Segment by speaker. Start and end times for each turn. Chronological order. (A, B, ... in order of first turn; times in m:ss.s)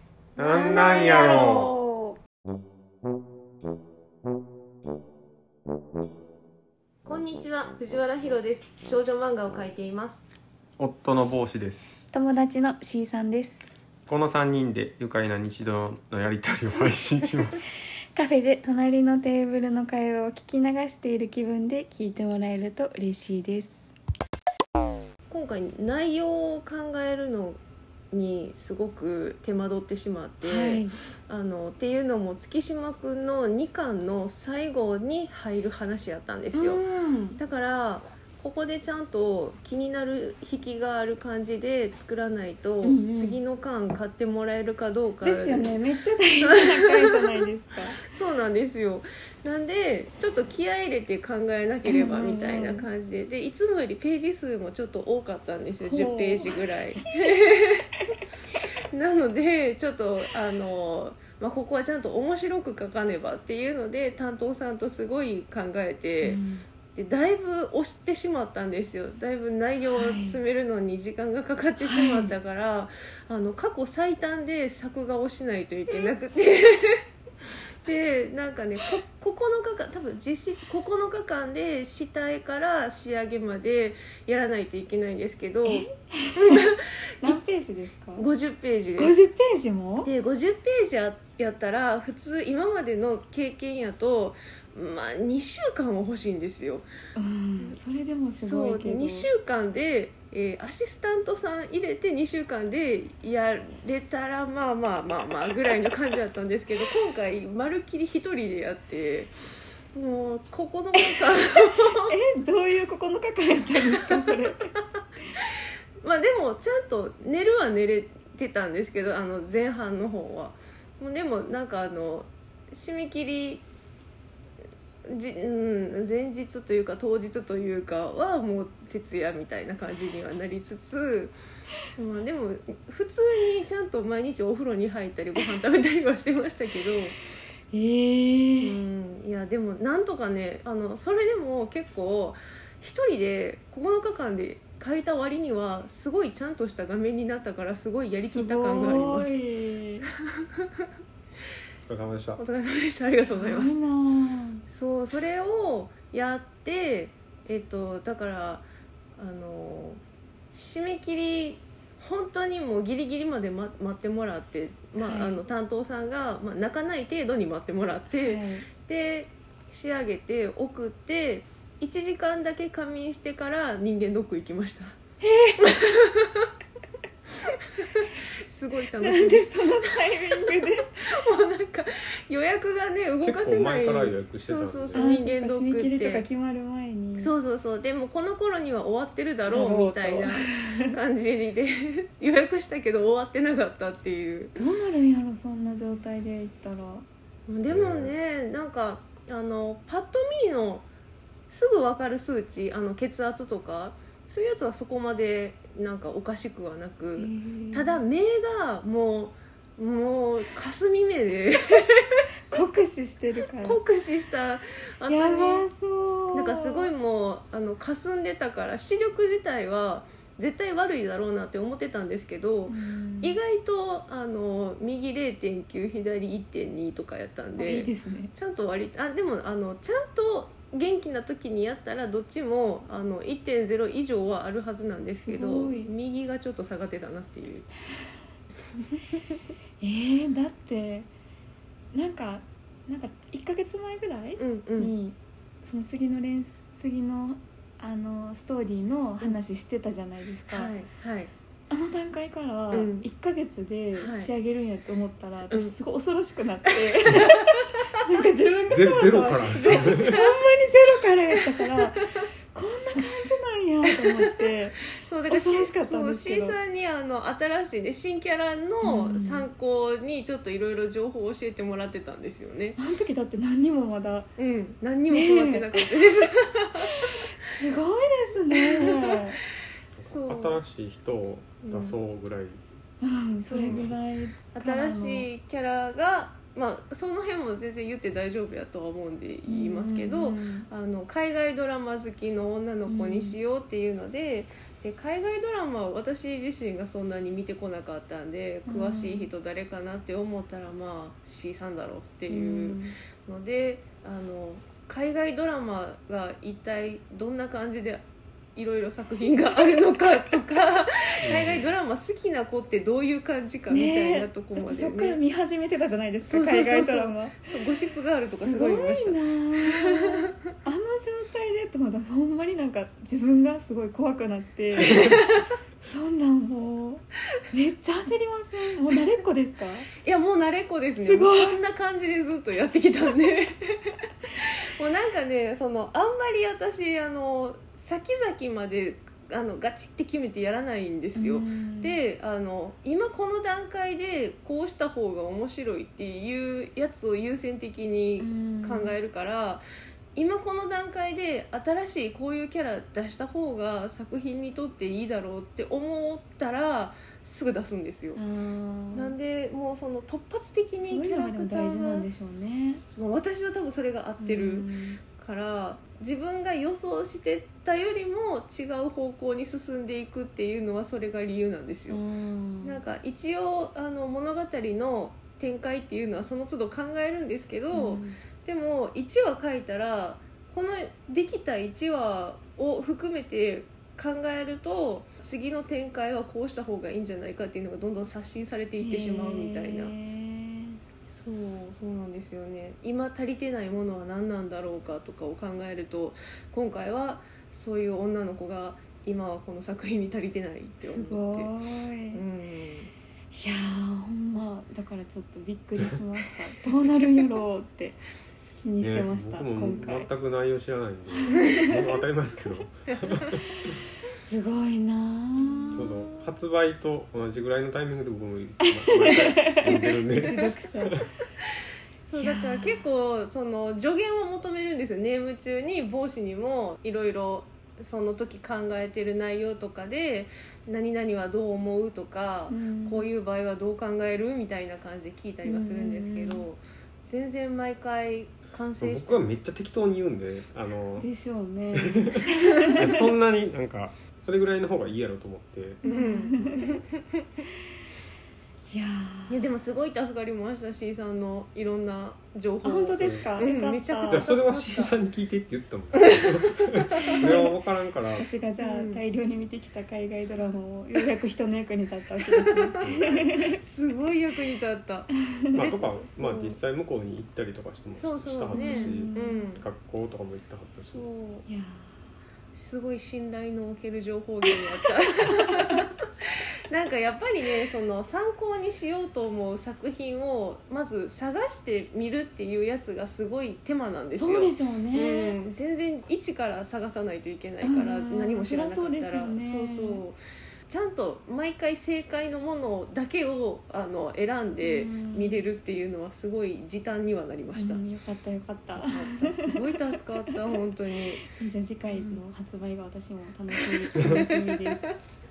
0:00.4-0:02.2 A
0:00.4-0:01.8 B
0:07.0-0:10.2 A
0:10.8-0:12.0 B
0:12.1-0:13.7 C
0:14.1-0:17.6 B
0:18.2-0:23.9 C
0:25.3-0:27.6 A
0:28.1-0:36.8 A
0:30.4-0:31.0 C
0:36.5-0:37.4 C
0:37.4-0:45.8 A
0:42.8-0:43.4 C
0:45.2-0:48.0 C
0:46.4-0:47.4 A
0:48.0-0:57.9 A
0:51.8-0:52.9 C
0:55.8-0:57.5 C
0:58.9-1:06.4 A
1:06.2-1:06.6 C
1:07.0-1:17.0 A
1:09.9-1:10.4 C
1:11.8-1:12.3 C
1:17.8-1:27.4 A
1:25.6-1:28.3 C
1:28.2-1:29.2 A
1:29.0-1:30.1 C
1:30.0-1:36.9 A
1:37.2-1:39.3 C
1:38.4-1:49.3 A
1:49.9-1:52.1 A
1:51.0-1:54.7 C
1:56.0-2:03.6 A
2:05.1-2:11.4 A
2:12.0-2:17.2 A
2:17.7-2:18.8 C
2:18.6-2:29.4 A
2:28.3-2:30.1 C
2:30.3-2:30.9 A
2:31.8-2:32.4 B
2:32.4-2:33.8 A
2:33.3-2:34.6 C
2:34.7-2:38.6 A
2:39.2-2:40.0 A
2:40.5-2:55.0 A
2:45.0-2:45.4 C
2:48.2-2:48.7 C
2:55.2-2:55.7 C
2:55.6-2:56.5 A
2:57.4-3:06.3 A
2:59.0-3:00.9 C
3:03.2-3:05.0 B
3:04.9-3:07.3 C
3:07.2-3:14.6 A
3:09.5-3:11.0 C
3:14.6-3:17.0 C
3:17.5-3:20.9 A
3:17.7-3:18.2 B
3:21.5-3:32.6 A
3:27.2-3:28.0 C
3:32.5-3:33.8 C
3:33.6-3:35.7 A
3:35.1-3:36.9 C
3:36.3-3:57.7 A
3:42.7-3:43.4 C
3:47.6-3:48.3 C
3:55.2-3:55.9 C
3:59.8-4:01.1 C
4:01.9-4:10.7 C
4:04.4-4:04.9 A
4:10.5-4:11.3 A
4:11.7-4:26.6 C
4:12.7-4:13.1 A
4:14.0-4:14.3 A
4:15.5-4:15.8 A
4:16.7-4:17.3 A
4:18.7-4:20.2 B
4:19.4-4:20.4 A
4:25.0-4:32.8 A
4:28.8-4:29.5 C
4:32.8-4:34.3 C
4:34.4-4:37.3 A
4:35.1-4:36.2 C
4:36.8-4:39.4 C
4:38.6-4:39.2 A
4:40.0-4:42.6 B
4:40.1-4:40.6 A
4:41.6-4:42.0 A
4:43.0-4:45.3 C
4:43.5-4:43.9 A
4:44.5-5:08.0 A
4:49.5-4:50.7 C
4:52.9-4:53.4 C
4:58.7-4:59.3 C
5:02.3-5:03.0 C
5:08.6-5:15.2 A
5:11.2-5:11.7 B
5:13.7-5:17.4 C
5:16.2-5:20.4 A
5:18.3-5:25.2 C
5:25.9-5:29.9 C
5:30.0-5:49.6 A
5:31.0-5:31.5 C
5:41.2-5:42.0 C
5:48.2-5:49.0 C
5:50.2-5:58.2 A
5:58.2-5:59.1 C
5:58.9-6:12.0 A
6:00.8-6:02.8 C
6:04.2-6:05.0 C
6:11.9-6:12.8 C
6:12.6-6:29.9 A
6:17.7-6:18.2 C
6:28.8-6:30.8 C
6:31.1-6:41.5 A
6:40.8-6:42.2 C
6:42.1-6:42.9 A
6:43.3-6:48.0 C
6:48.6-6:50.1 C
6:48.8-6:53.8 B
6:51.1-6:51.7 C
6:51.4-6:51.7 A
6:52.9-6:53.4 A
6:54.2-6:56.1 C
6:55.4-6:55.9 A
6:55.8-7:01.1 B
6:58.6-7:01.0 C
6:59.7-7:00.5 A
7:02.0-7:19.3 A
7:02.2-7:02.9 C
7:12.5-7:13.1 C
7:15.4-7:16.5 C
7:18.8-7:21.1 B
7:21.0-7:22.8 C
7:21.8-7:25.8 B
7:25.8-7:26.7 C
7:25.8-7:27.0 A
7:28.7-7:29.4 C
7:29.3-7:35.0 A
7:32.6-7:34.3 C
7:32.9-7:33.3 B
7:34.1-7:38.3 B
7:36.0-7:37.4 A
7:37.2-7:37.5 C
7:38.2-7:43.6 C
7:38.6-7:39.0 A
7:40.2-7:40.6 A
7:42.2-7:46.6 A
7:42.8-7:43.2 B
7:45.5-7:51.1 B
7:48.0-7:49.7 A
7:48.5-7:49.5 C
7:50.8-7:51.5 A
7:51.5-7:52.1 C
7:52.5-7:56.0 A
7:55.2-7:55.8 C
7:56.7-8:10.2 A
8:04.1-8:05.4 C
8:07.6-8:10.0 C
8:10.7-8:17.8 A
8:14.6-8:15.5 C
8:17.6-8:19.7 C
8:18.8-8:21.3 A
8:21.2-8:24.9 C
8:21.9-8:22.2 A
8:23.5-8:24.9 A